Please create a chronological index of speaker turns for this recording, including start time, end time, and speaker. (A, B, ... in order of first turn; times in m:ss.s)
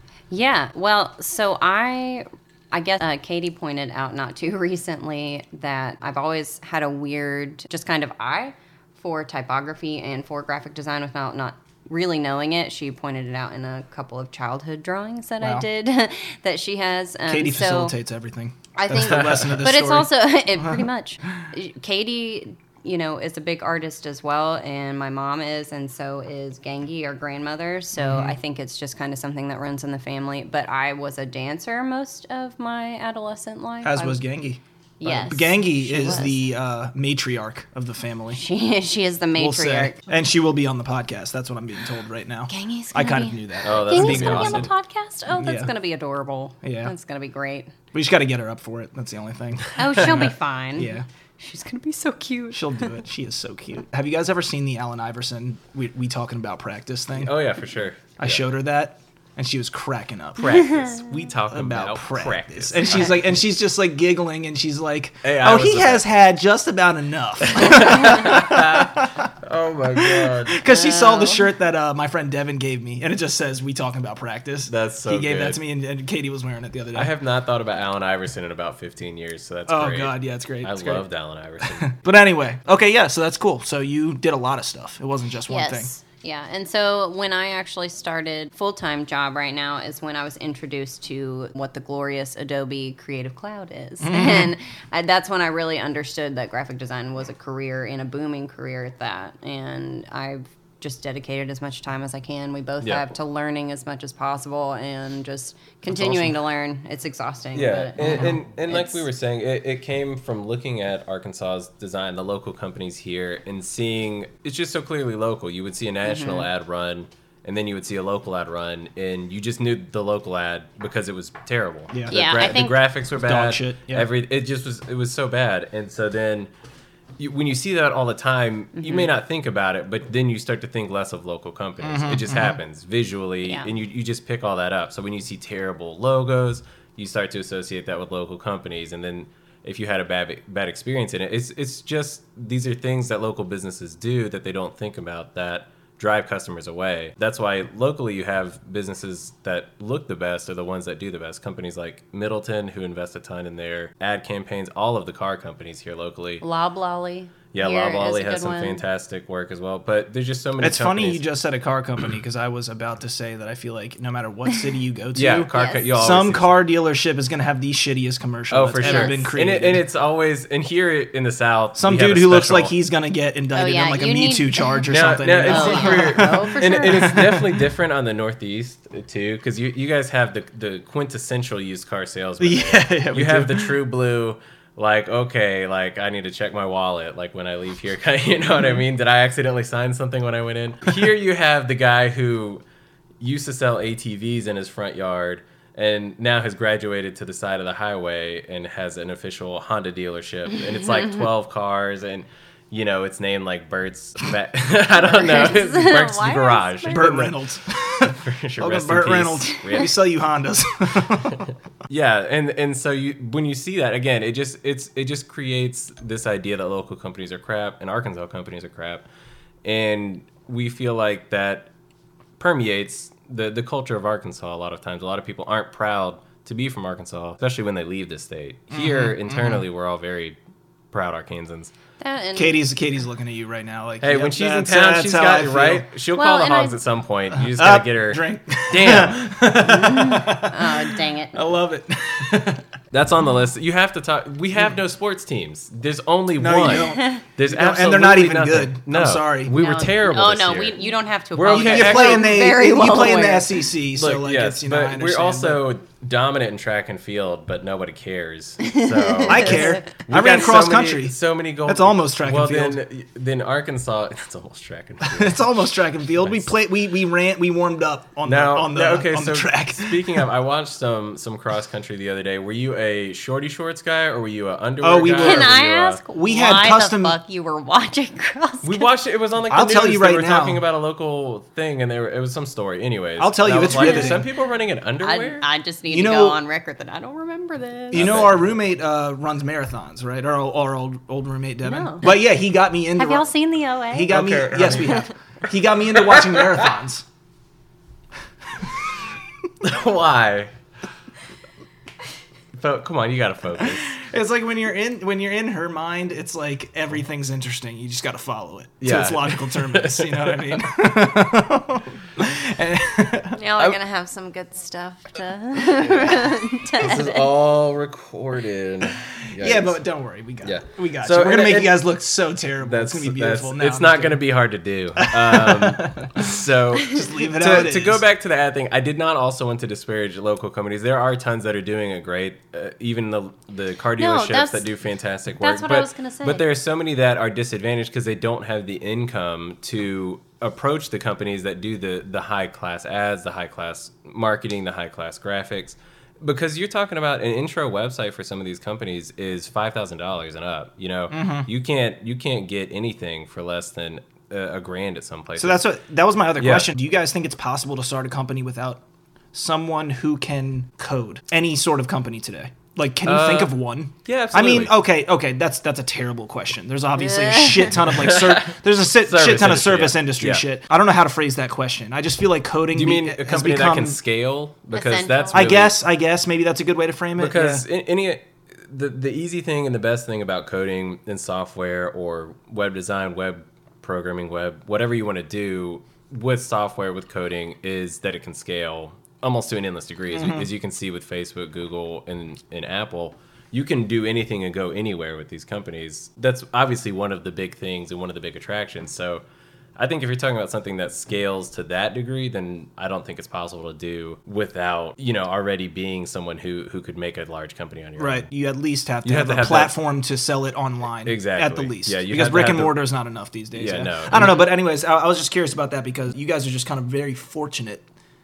0:00.3-0:18.0 A
0:15.4-0:15.6 B
0:17.2-0:20.8 B
0:18.7-0:34.2 A
0:19.2-0:19.4 C
0:28.0-0:28.4 B
0:33.8-0:38.4 B
0:35.0-0:36.4 A
0:38.3-0:40.0 A
0:39.4-0:44.7 B
0:42.5-0:47.7 A
0:43.6-0:44.7 C
0:45.3-0:45.7 B
0:46.6-0:46.9 B
0:47.9-0:51.0 B
0:49.8-0:53.0 A
0:52.5-0:57.3 B
0:57.1-0:58.4 C
0:58.2-1:00.9 B
1:00.4-1:03.2 C
1:01.5-1:09.3 B
1:05.2-1:06.0 C
1:07.4-1:10.6 C
1:10.0-1:17.1 B
1:10.6-1:11.4 A
1:14.7-1:15.6 C
1:16.9-1:21.9 C
1:19.7-1:21.0 B
1:21.6-1:25.9 B
1:25.5-1:49.0 A
1:34.0-1:34.5 B
1:42.8-1:43.1 C
1:45.9-1:46.4 C
1:47.5-2:06.5 C
1:48.0-1:48.3 B
1:56.0-1:56.5 A
2:01.9-2:02.2 B
2:02.1-2:02.8 A
2:03.1-2:04.1 B
2:07.2-2:36.4 C
2:08.8-2:09.1 A
2:11.8-2:12.6 B
2:36.4-2:38.8 A
2:37.5-2:41.2 C
2:40.6-2:49.8 B
2:45.1-2:46.6 C
2:45.5-2:45.9 A
2:48.5-2:52.7 C
2:48.8-2:49.2 A
2:51.8-2:57.6 B
2:53.5-2:54.8 A
2:54.9-3:12.6 C
2:55.4-2:57.3 A
3:02.4-3:03.8 B
3:13.2-3:27.4 C
3:24.9-3:27.2 A
3:26.9-3:31.4 B
3:28.0-3:30.0 C
3:31.9-3:39.0 C
3:39.6-3:41.7 C
3:42.4-3:50.4 C
3:48.7-3:49.6 B
3:50.9-3:51.7 C
3:52.0-3:52.6 A
3:52.4-3:55.9 B
3:54.0-3:59.3 C
3:56.1-3:56.8 A
3:57.3-4:02.6 B
3:59.6-4:01.4 A
4:02.9-4:12.3 C
4:06.4-4:09.5 B
4:06.7-4:07.2 A
4:09.6-4:13.6 A
4:11.4-4:15.6 B
4:13.9-4:25.5 C
4:18.7-4:19.8 A
4:19.2-4:22.8 B
4:25.0-4:30.2 B
4:26.1-4:26.5 C
4:28.2-4:36.0 C
4:34.8-4:35.5 B
4:35.2-4:38.9 A
4:36.1-4:37.2 B
4:38.6-4:45.4 C
4:39.5-4:40.6 B
4:43.2-4:44.2 B
4:43.6-4:44.2 A
4:45.0-4:48.2 A
4:45.9-4:46.4 B
4:47.9-4:53.3 B
4:47.9-4:48.6 C
4:51.6-4:52.1 A
4:53.0-4:54.1 A
4:53.9-4:57.0 B
4:54.1-4:55.0 C
4:54.8-4:55.1 A
4:55.9-4:56.7 C
4:59.6-5:00.5 C
5:02.6-5:04.0 C
5:03.6-5:13.4 B
5:08.8-5:10.6 C
5:13.3-5:17.2 A
5:15.8-5:19.8 C
5:19.4-5:24.2 B
5:20.4-5:21.9 C
5:22.6-5:55.6 C
5:25.0-5:26.3 B
5:26.8-5:28.0 B
5:34.0-5:34.6 A
5:35.4-5:36.4 A
5:51.1-5:51.5 B
5:55.4-5:58.8 B
5:56.4-5:56.7 C
5:59.3-6:14.0 B
6:03.0-6:04.7 C
6:07.2-6:07.7 A
6:07.8-6:10.4 C
6:12.7-6:15.8 C
6:14.7-6:15.5 A
6:15.3-6:17.6 B
6:17.2-6:39.2 C
6:30.2-6:30.5 B
6:39.8-6:48.3 C
6:48.0-6:57.8 B
6:49.0-6:49.7 C
6:51.0-6:52.8 C
6:53.5-6:54.4 C